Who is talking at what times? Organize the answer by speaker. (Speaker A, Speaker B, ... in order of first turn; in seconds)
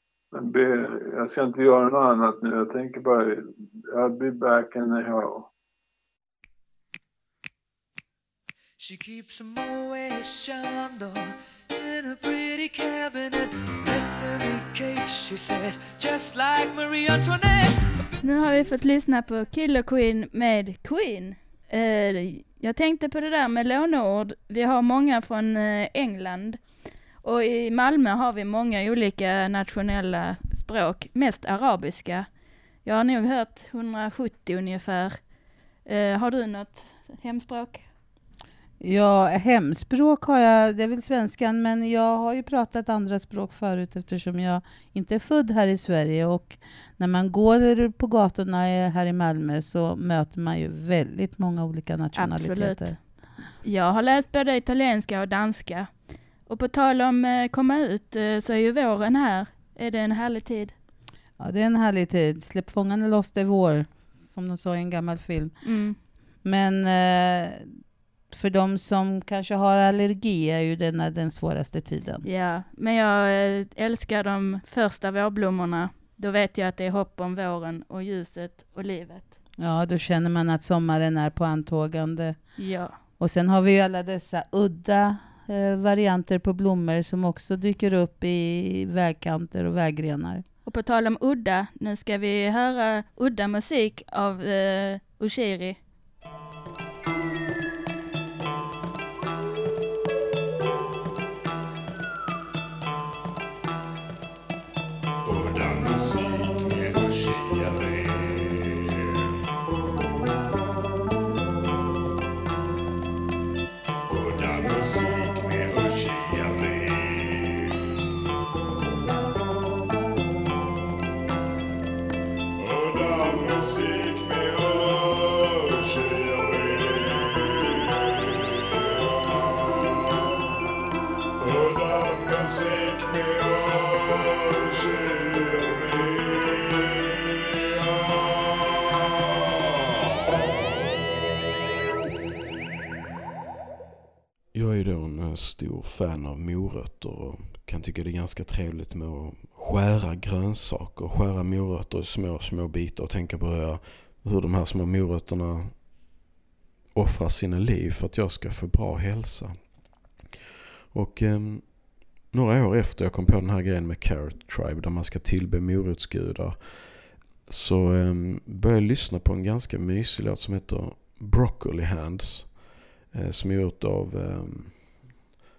Speaker A: 0.3-5.5
Speaker B: 8.8-11.2, 11.8-13.4, 13.9-17.7
Speaker C: 18.2-26.6, 27.2-32.3, 32.8-35.2, 35.8-37.8, 52.1-60.7, 65.6-66.0, 72.2-79.3, 82.6-83.0, 90.6-95.8
Speaker D: 38.8-52.9, 61.4-65.6, 66.4-67.7, 68.3-72.2, 79.6-82.4, 83.2-90.4
Speaker E: 144.5-155.8, 156.9-159.8, 160.9-175.2